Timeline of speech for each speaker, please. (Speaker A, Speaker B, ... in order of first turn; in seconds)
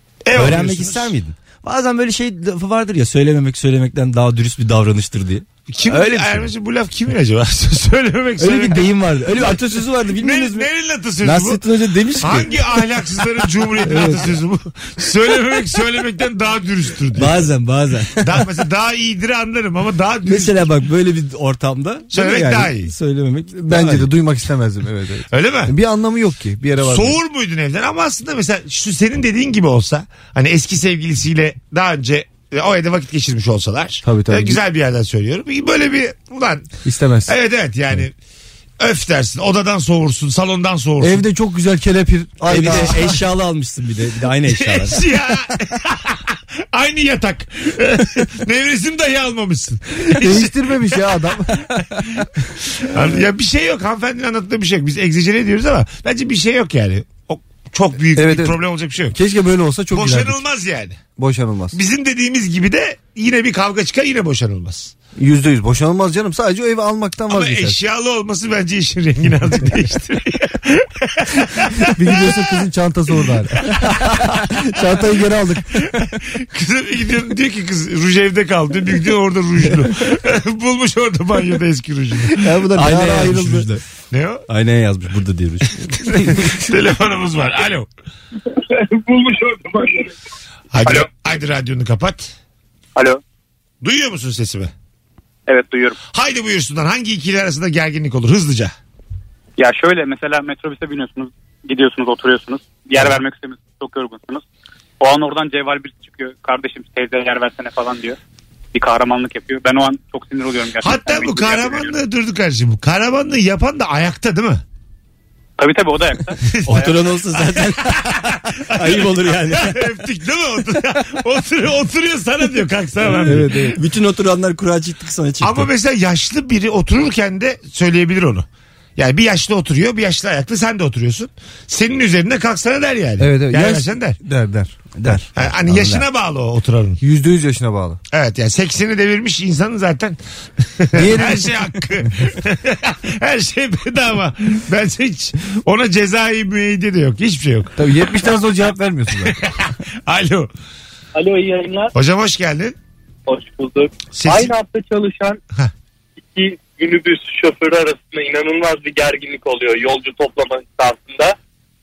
Speaker A: 0.2-1.1, 5.7-9.6, 10.2-11.6, 12.2-17.4, 18.2-20.6, 22.1-22.9, 25.3-25.7, 26.8-36.7, 37.3-38.1, 38.8-41.2, 44.6-50.5, 52.9-59.2, 59.9-61.0, 61.7-64.9, 67.3-71.9, 76.0-82.4, 84.1-84.4, 86.4-87.9, 90.7-92.3, 93.8-94.7, 96.1-98.7, 110.8-114.6, 116.5-116.8, 118.7-123.7, 125.4-128.5, 129.0-134.2, 135.4-137.0, 138.1-140.2, 140.8-147.7, 149.2-150.5, 151.9-152.8, 154.2-154.5
Speaker B: 0.3-6.5, 8.4-10.7, 11.2-12.6, 13.8-14.3, 17.1-18.5, 20.2-24.1, 42.5-45.0, 82.8-83.8, 84.5-86.5, 116.7-119.8, 123.0-125.7, 135.0-136.0
Speaker C: 23.6-27.2, 34.0-34.6, 36.9-37.4, 41.0-43.2, 50.2-51.6, 58.1-58.6, 59.1-60.4, 61.2-61.8, 65.2-67.8, 71.9-73.7, 74.4-75.8, 82.3-83.7, 123.2-123.7, 133.2-135.1, 137.0-138.0, 140.9-141.5, 147.8-149.3
Speaker D: 95.5-96.0, 99.6-104.4, 105.0-108.2, 108.8-111.9, 115.6-117.0
Speaker E: 151.2-151.9, 153.3-155.4, 156.2-161.3